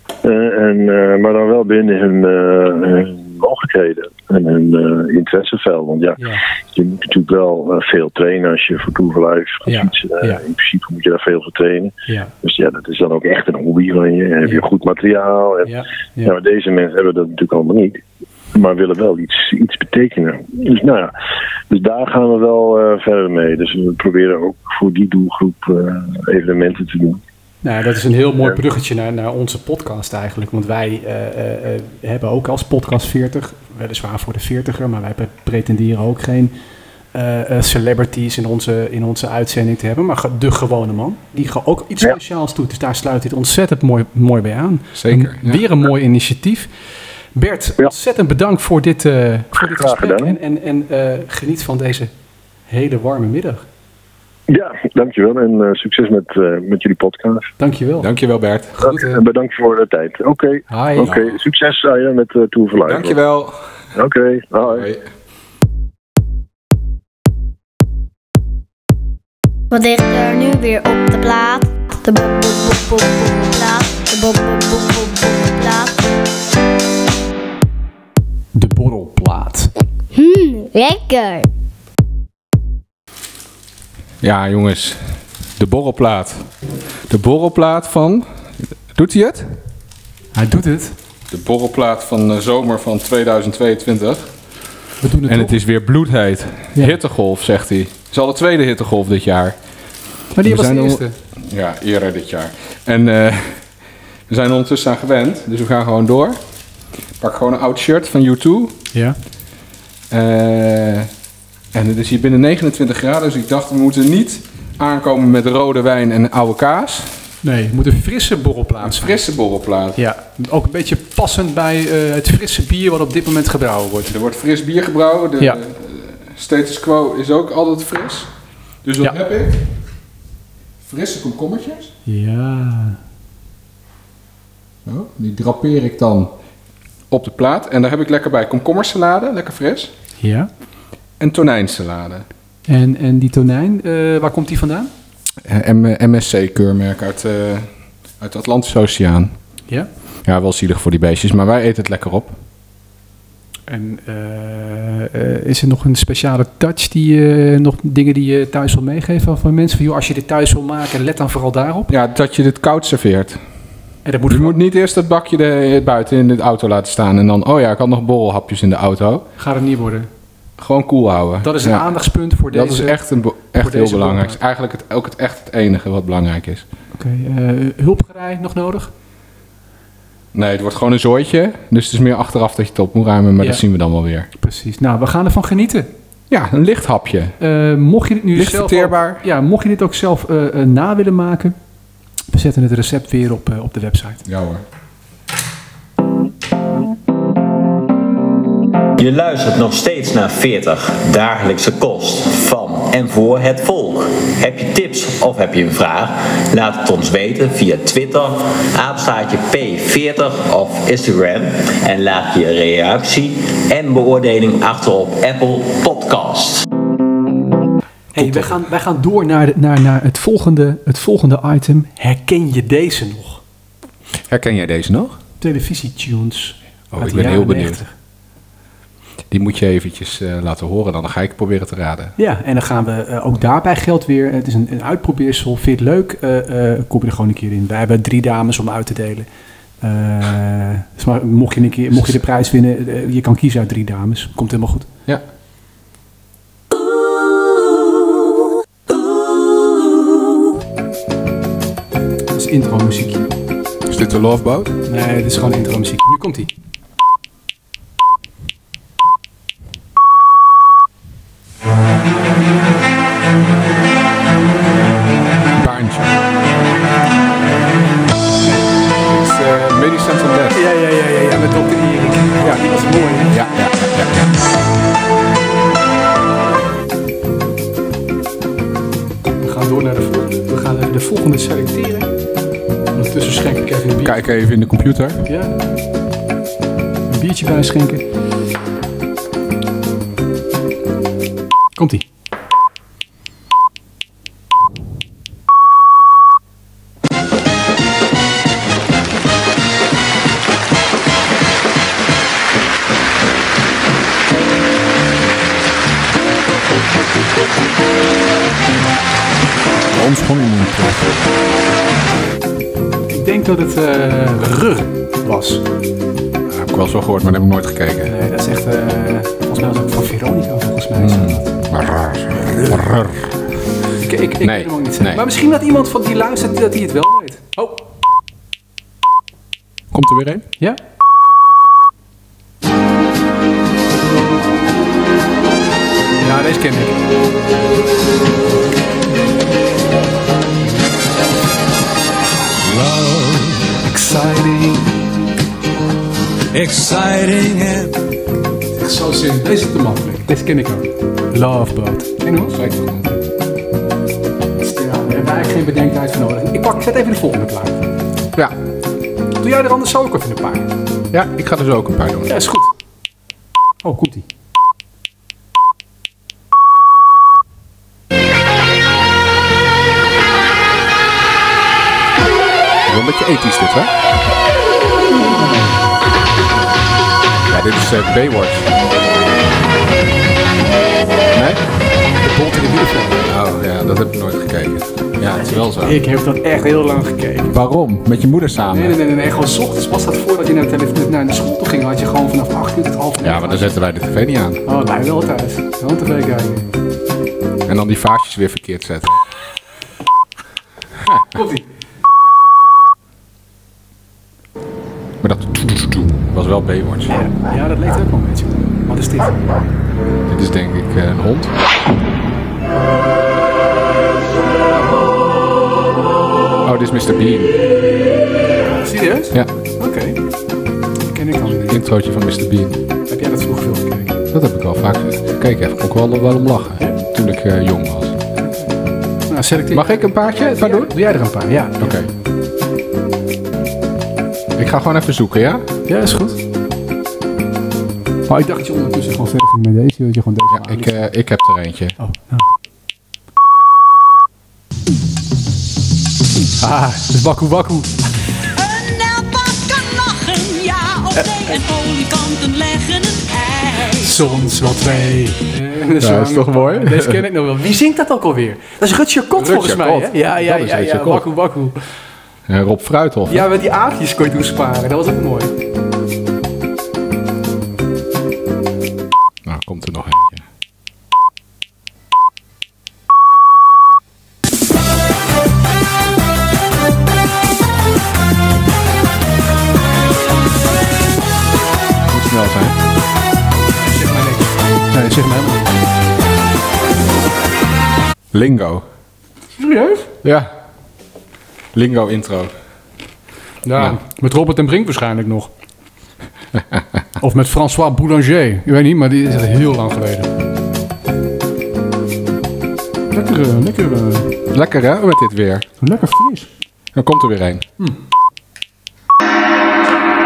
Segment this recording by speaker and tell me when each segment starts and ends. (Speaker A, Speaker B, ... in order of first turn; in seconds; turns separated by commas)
Speaker A: 0.2-18.0, Speaker B: 9.7-10.4, Speaker B: 12.1-12.3, Speaker B: 15.6-16.4, Speaker A: 18.5-21.1, Speaker A: 21.7-27.2, Speaker B: 27.6-36.5, Speaker B: 37.1-46.7, Speaker C: 44.9-45.6, Speaker B: 47.3-52.1, Speaker A: 49.6-50.4, Speaker B: 52.7-53.6, Speaker A: 54.5-57.5, Speaker B: 57.6-58.1, Speaker C: 58.0-58.7, Speaker B: 58.8-59.2, Speaker A: 58.8-63.2, Speaker B: 60.7-61.2, Speaker C: 61.0-61.3, Speaker C: 62.9-63.6, Speaker A: 63.9-64.9, Speaker C: 64.6-65.0, Speaker D: 69.7-76.1, Speaker B: 78.5-79.7, Speaker D: 80.1-81.5, Speaker C: 84.2-86.5, Speaker C: 87.1-89.5, Speaker B: 90.3-91.0, Speaker C: 91.3-94.3, Speaker B: 95.0-95.6, Speaker C: 95.2-99.5, Speaker B: 100.3-101.1, Speaker C: 100.4-103.6, Speaker C: 104.3-106.4, Speaker C: 107.2-108.8, Speaker C: 110.1-111.1, Speaker C: 111.7-117.2, Speaker B: 117.4-119.2, Speaker C: 118.8-120.0, Speaker B: 120.0-124.1, Speaker C: 124.1-128.3, Speaker C: 128.8-129.6, Speaker C: 130.8-131.9, Speaker B: 132.1-133.0, Speaker C: 134.8-136.3, Speaker C: 137.1-139.9, Speaker B: 140.2-140.5, Speaker C: 141.2-142.2, Speaker B: 142.7-144.9, Speaker C: 145.4-147.7, Speaker C: 148.2-149.3, Speaker C: 150.2-152.4, Speaker B: 153.7-161.9, Speaker C: 161.9-163.4, Speaker B: 164.1-164.6, Speaker C: 164.3-169.3, Speaker B: 169.4-170.1, Speaker C: 170.6-171.9, Speaker B: 171.4-173.0, Speaker C: 172.5-176.6, Speaker B: 173.5-174.4, Speaker B: 176.9-178.9, Speaker C: 180.3-184.3, Speaker B: 184.4-185.9, Speaker C: 186.3-187.4, Speaker B: 187.4-191.6, Speaker C: 188.3-189.2, Speaker B: 192.3-194.2, Speaker C: 194.2-194.6, Speaker E: 199.0-216.6, Speaker C: 218.1-218.6, Speaker B: 218.1-223.4, Speaker C: 224.3-225.2, Speaker B: 225.4-227.9, Speaker C: 226.9-227.8, Speaker C: 229.3-232.1, Speaker B: 232.2-239.3, Speaker B: 239.8-244.9, Speaker C: 241.9-242.2, Speaker B: 252.3-253.3, Speaker C: 253.9-254.7, Speaker B: 254.9-256.5, Speaker C: 265.6-266.1, Speaker C: 269.1-270.6, Speaker B: 270.5-273.4, Speaker C: 273.3-274.4, Speaker B: 279.4-282.1, Speaker B: 282.9-284.3, Speaker C: 284.0-285.2, Speaker B: 285.2-285.6, Speaker B: 287.1-288.0, Speaker B: 291.8-292.0, Speaker C: 309.9-311.2, Speaker B: 313.1-315.6, Speaker C: 316.5-318.1, Speaker B: 318.1-321.5, Speaker C: 321.0-323.4, Speaker B: 324.0-327.9, Speaker C: 324.4-325.2, Speaker C: 329.9-330.5, Speaker B: 336.2-337.0, Speaker F: 342.6-343.6, Speaker B: 343.8-345.0, Speaker F: 346.5-347.9, Speaker B: 348.8-352.6, Speaker C: 352.5-353.1, Speaker B: 354.6-357.9, Speaker B: 359.4-360.7, Speaker C: 361.1-362.3, Speaker B: 362.3-362.7, Speaker B: 363.8-364.2, Speaker C: 372.9-373.9, Speaker B: 375.2-375.9, Speaker C: 377.5-378.7, Speaker C: 381.3-381.6, Speaker B: 382.2-383.2, Speaker C: 383.3-386.0, Speaker B: 385.4-387.6, Speaker C: 387.4-389.0, Speaker B: 388.7-393.7, Speaker C: 393.2-394.6, Speaker B: 394.6-396.7, Speaker C: 397.6-399.2, Speaker B: 401.3-401.6, Speaker C: 405.2-407.1, Speaker B: 407.1-409.6, Speaker C: 410.3-411.6, Speaker C: 416.6-417.6, Speaker B: 418.6-420.2, Speaker B: 421.1-421.8, Speaker C: 421.7-422.8, Speaker B: 423.1-424.2, Speaker C: 424.3-428.2, Speaker B: 429.3-432.0, Speaker C: 429.7-430.9, Speaker C: 431.8-432.1, Speaker C: 434.6-435.6, Speaker B: 435.9-436.4, Speaker B: 438.3-441.1, Speaker C: 440.5-441.9, Speaker B: 442.0-442.5, Speaker B: 446.6-447.9, Speaker F: 448.7-453.9, Speaker B: 451.1-451.5, Speaker B: 453.9-461.8, Speaker C: 456.0-457.2, Speaker C: 459.4-461.3, Speaker C: 462.5-463.5, Speaker B: 463.3-465.5, Speaker C: 469.4-470.4, Speaker C: 482.1-482.8, Speaker B: 483.5-485.8, Speaker C: 488.3-488.8, Speaker B: 489.6-490.1, Speaker C: 490.2-490.5, Speaker C: 491.7-492.5, Speaker B: 493.6-495.5, Speaker B: 497.2-500.3, Speaker B: 503.1-504.3, Speaker C: 504.5-505.7, Speaker B: 505.8-506.5, Speaker C: 506.9-507.6